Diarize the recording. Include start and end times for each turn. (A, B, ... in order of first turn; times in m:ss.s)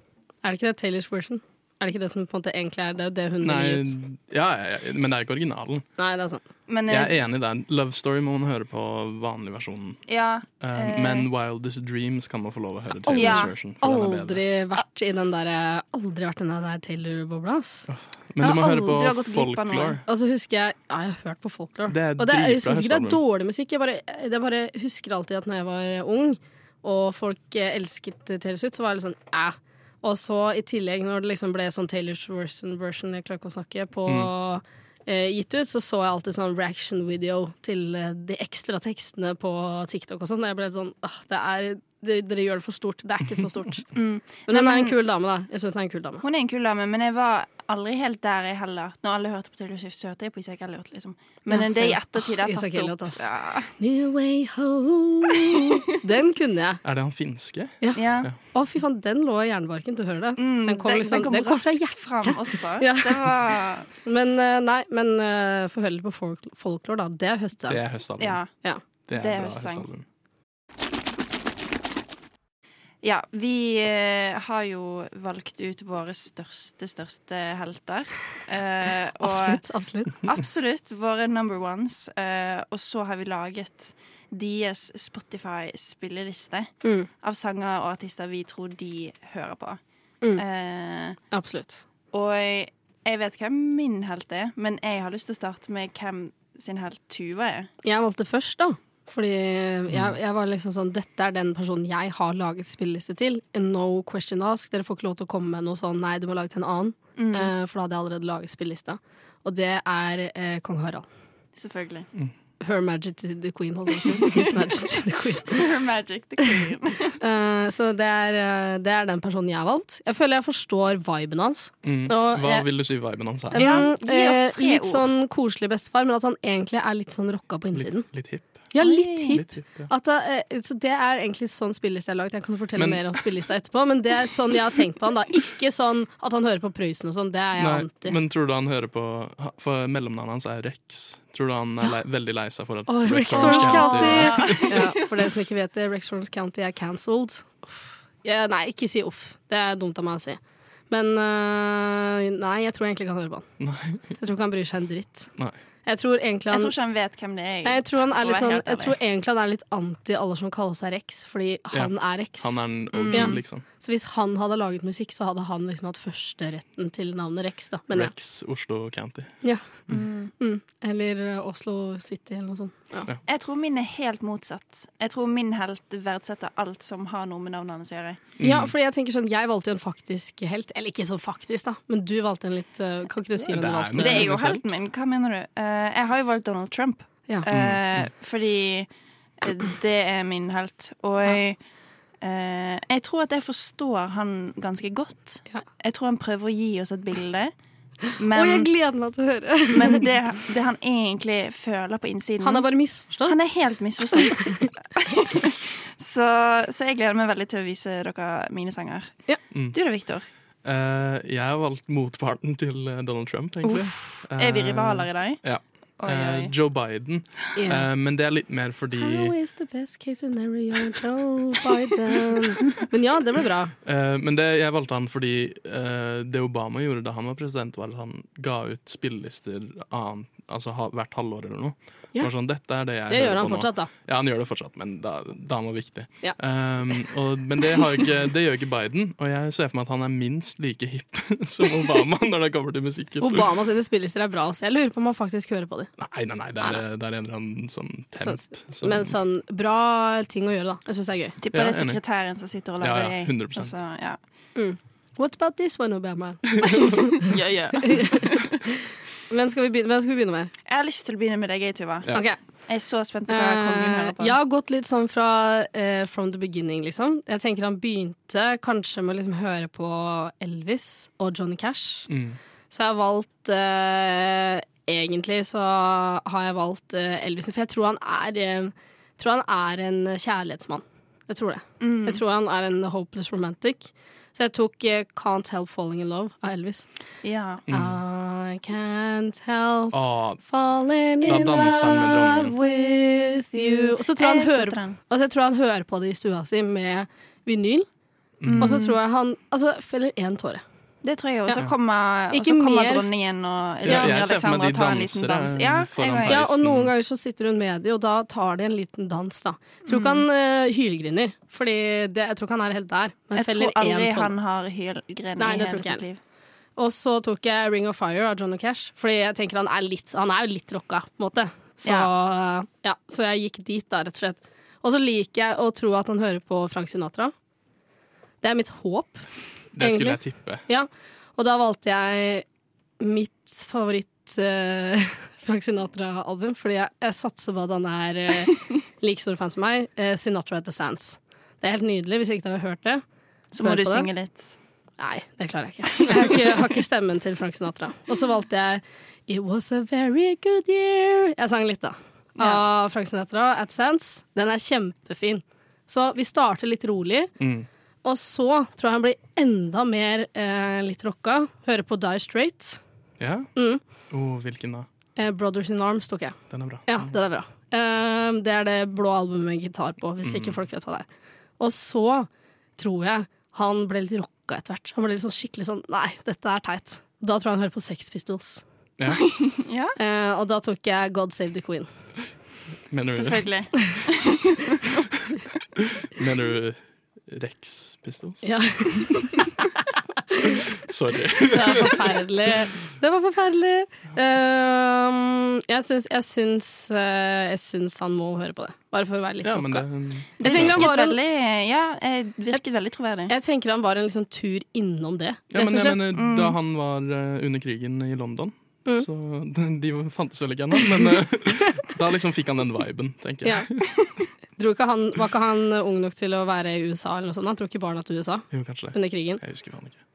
0:00.4-0:03.9 A
0:03.4-0:05.8 B
0:06.0-0:06.4 A
0:06.7-0:07.1 C
0:06.9-0:10.0 B
0:10.1-0:11.3 C
0:10.6-0:14.4 B
0:13.1-0:17.9 A
0:13.1-0:13.5 C
0:17.9-0:20.0 B
0:18.4-0:20.0 C
0:20.0-0:43.9 A
0:21.9-0:23.2 B
0:43.9-0:44.9 C
0:44.5-0:46.2 A
0:46.2-0:53.7 C
0:51.5-0:56.8 A
0:55.5-0:55.8 C
0:56.8-0:58.3 B
0:57.8-1:03.2 A
0:57.9-0:58.3 C
1:00.4-1:03.9 C
1:04.0-1:07.8 A
1:07.7-1:08.4 B
1:08.2-1:08.5 C
1:09.1-1:10.0 B
1:09.1-1:09.9 C
1:13.0-1:19.6 C
1:19.2-1:20.2 A
1:20.2-1:29.8 C
1:30.4-1:31.2 C
1:31.3-1:31.8 A
1:32.1-1:37.7 C
1:37.8-1:51.0 A
1:47.2-1:47.5 C
1:51.5-1:52.1 C
1:52.6-1:55.7 A
1:55.5-1:57.2 C
1:57.2-2:02.7 A
2:01.8-2:03.8 B
2:03.5-2:08.1 A
2:03.5-2:05.1 C
2:07.7-2:08.7 B
2:08.7-2:18.2 A
2:08.8-2:09.4 C
2:09.3-2:09.9 B
2:12.8-2:13.3 B
2:17.6-2:24.8 B
2:22.9-2:33.5 A
2:23.3-2:25.1 C
2:33.6-2:34.2 B
2:34.2-2:35.3 A
2:35.8-2:36.7 A
2:36.5-2:38.9 C
2:37.6-2:42.6 A
2:41.7-2:43.6 B
2:42.9-2:43.4 C
2:43.1-2:48.1 A
2:47.9-2:49.3 B
2:49.9-2:50.3 C
2:50.4-2:53.1 A
2:53.3-2:58.2 C
2:58.4-2:58.7 B
2:58.4-3:04.3 A
3:03.4-3:04.7 B
3:03.9-3:08.9 C
3:07.5-3:08.1 B
3:09.4-3:11.6 C
3:12.2-3:17.5 C
3:18.2-3:18.7 C
3:18.3-3:20.0 A
3:19.7-3:22.7 C
3:22.4-3:23.5 A
3:23.2-3:29.2 C
3:24.1-3:24.7 A
3:29.5-3:29.8 B
3:29.7-3:30.3 C
3:30.6-3:39.3 B
3:33.6-3:35.4 C
3:36.0-3:36.5 C
3:37.5-3:37.8 A
3:39.0-3:43.7 A
3:43.8-4:03.5 B
3:53.1-3:53.9 A
4:03.2-4:05.9 A
4:06.0-4:09.2 B
4:08.2-4:11.4 A
4:11.4-4:14.2 C
4:11.5-4:12.0 B
4:12.8-4:13.7 B
4:14.6-4:20.5 A
4:16.6-4:16.9 B
4:17.2-4:18.5 C
4:20.7-4:24.4 C
4:22.1-4:22.4 A
4:23.3-4:32.1 A
4:32.1-4:32.4 B
4:32.7-4:46.9 A
4:41.8-4:42.2 C
4:47.2-4:47.6 C
4:47.7-4:48.0 B
4:47.7-4:57.9 A
4:49.9-4:50.4 B
4:51.2-4:52.5 B
4:53.8-4:55.0 C
4:58.4-4:58.8 B
4:58.5-4:59.0 C
4:58.6-5:00.6 A
5:01.0-5:06.4 C
5:02.3-5:03.1 A
5:03.8-5:06.9 B
5:03.9-5:04.1 A
5:06.3-5:14.3 A
5:09.9-5:10.2 C
5:13.4-5:16.2 C
5:15.4-5:16.0 A
5:16.8-5:27.3 A
5:21.8-5:22.1 C
5:28.4-5:29.2 A
5:29.7-5:30.6 B
5:29.8-5:32.4 A
5:33.0-5:43.0 A
5:43.5-5:44.6 C
5:43.6-5:44.1 A
5:45.0-5:57.3 A
5:52.4-5:52.6 C
5:57.4-5:57.7 B
5:58.0-6:02.8 A
6:03.2-6:03.5 B
6:03.5-6:03.8 A
6:04.1-6:04.9 B
6:05.2-6:11.1 A
6:06.5-6:07.1 B
6:10.2-6:10.6 B
6:11.6-6:18.6 A
6:19.1-6:20.0 C
6:20.0-6:21.9 A
6:22.9-6:23.4 B
6:23.1-6:25.0 C
6:25.7-6:29.3 B
6:28.4-6:30.6 A
6:30.7-6:32.0 B
6:31.5-6:41.2 A
6:39.4-6:40.9 B
6:40.4-6:43.3 C
6:43.3-6:46.0 A
6:45.5-6:53.9 B
6:46.1-6:46.5 C
6:54.6-6:59.4 A
6:58.5-7:00.0 B